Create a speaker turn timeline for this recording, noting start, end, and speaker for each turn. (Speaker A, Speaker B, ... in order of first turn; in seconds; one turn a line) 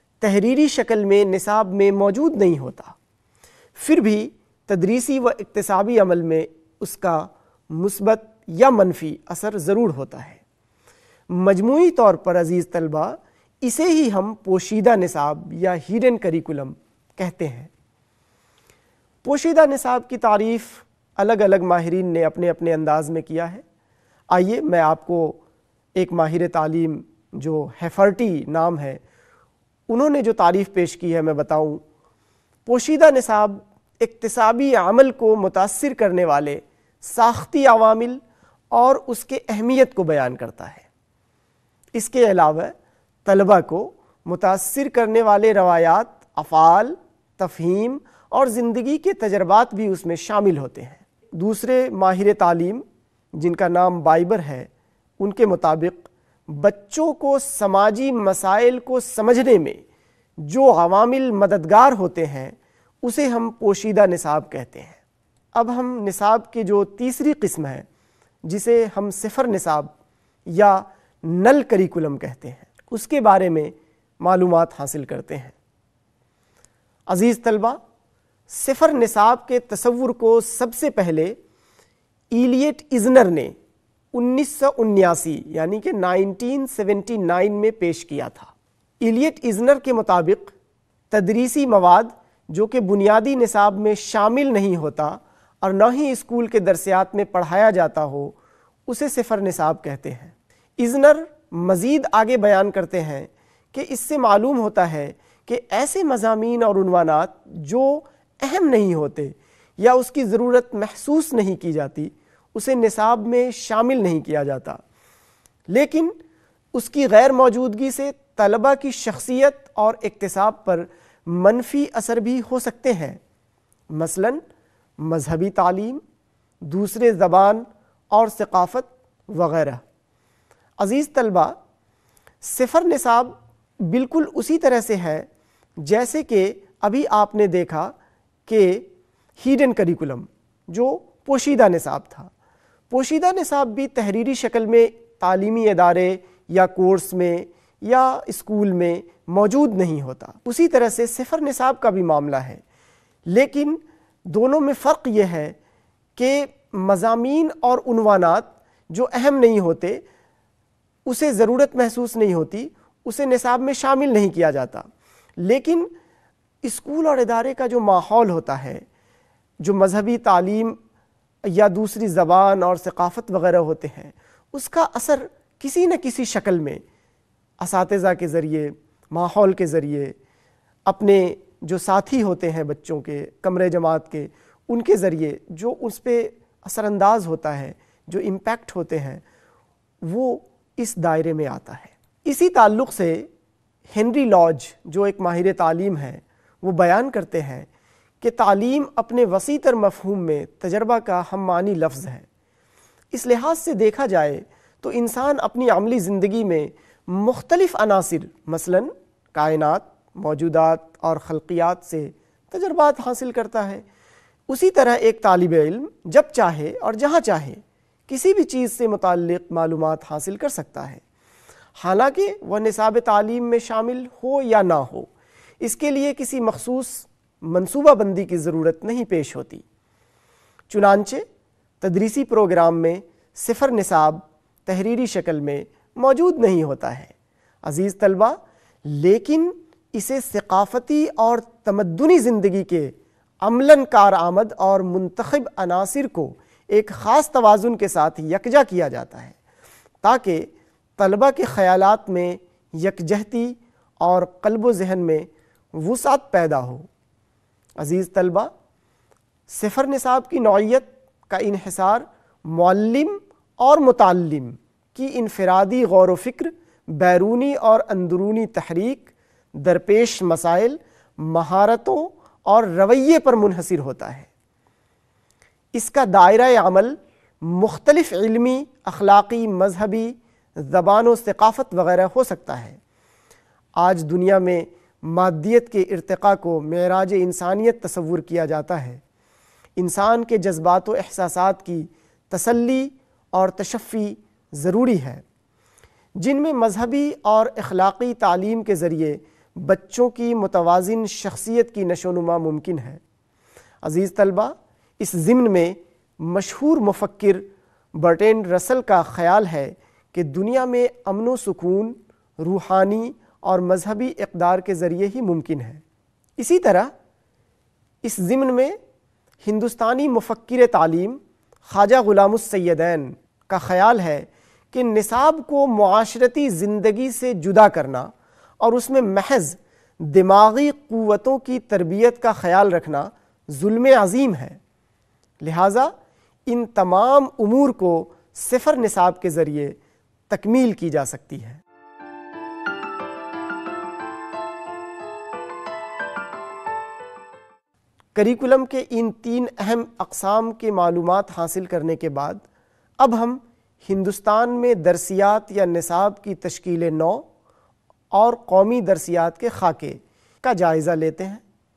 Speaker A: 0.2-3.0
Speaker A: 3.8-10.4
Speaker A: 11.3-17.7
Speaker A: 19.2-23.6
Speaker A: 24.3-25.4
Speaker A: 26.0-29.0
Speaker A: 29.9-31.8
Speaker A: 32.7-38.2
Speaker A: 38.7-40.9
Speaker A: 42.0-54.7
Speaker A: 55.2-59.8
Speaker A: 60.4-65.0
Speaker A: 65.5-67.9
Speaker A: 68.5-69.9
Speaker A: 70.5-75.6
Speaker A: 77.1-77.8
Speaker A: 78.5-81.4
Speaker A: 82.3-83.5
Speaker A: 84.1-90.5
Speaker A: 91.1-98.4
Speaker A: 98.9-114.8
Speaker A: 115.7-116.2
Speaker A: 116.7-123.2
Speaker A: 123.9-124.4
Speaker A: 125.0-126.0
Speaker A: 126.6-129.8
Speaker A: 130.8-131.6
Speaker A: 132.4-135.3
Speaker A: 135.8-137.9
Speaker A: 138.5-138.9
Speaker A: 139.4-142.3
Speaker A: 142.9-152.6
Speaker A: 153.3-155.6
Speaker A: 156.2-160.0
Speaker A: 161.1-164.9
Speaker A: 165.4-165.9
Speaker A: 166.6-168.8
Speaker A: 169.6-170.8
Speaker A: 171.4-176.8
Speaker A: 177.6-180.2
Speaker A: 180.9-189.2
Speaker A: 190.0-193.3
Speaker A: 193.9-197.7
Speaker A: 198.2-202.3
Speaker A: 203.1-213.8
Speaker A: 214.5-221.0
Speaker A: 221.8-225.1
Speaker A: 225.6-229.6
Speaker A: 230.7-231.2
Speaker A: 231.8-237.1
Speaker A: 237.6-249.4
Speaker A: 250.0-256.9
Speaker A: 257.8-258.5
Speaker A: 259.5-274.3
Speaker A: 275.7-282.8
Speaker A: 283.8-289.0
Speaker A: 289.8-295.2
Speaker A: 296.2-303.0
Speaker A: 303.8-315.8
Speaker A: 316.4-316.9
Speaker A: 318.0-318.8
Speaker A: 319.4-334.6
Speaker A: 335.4-335.9
Speaker A: 336.5-339.8
Speaker A: 340.3-341.6
Speaker A: 348.1-352.4
Speaker A: 353.0-357.2
Speaker A: 358.1-361.4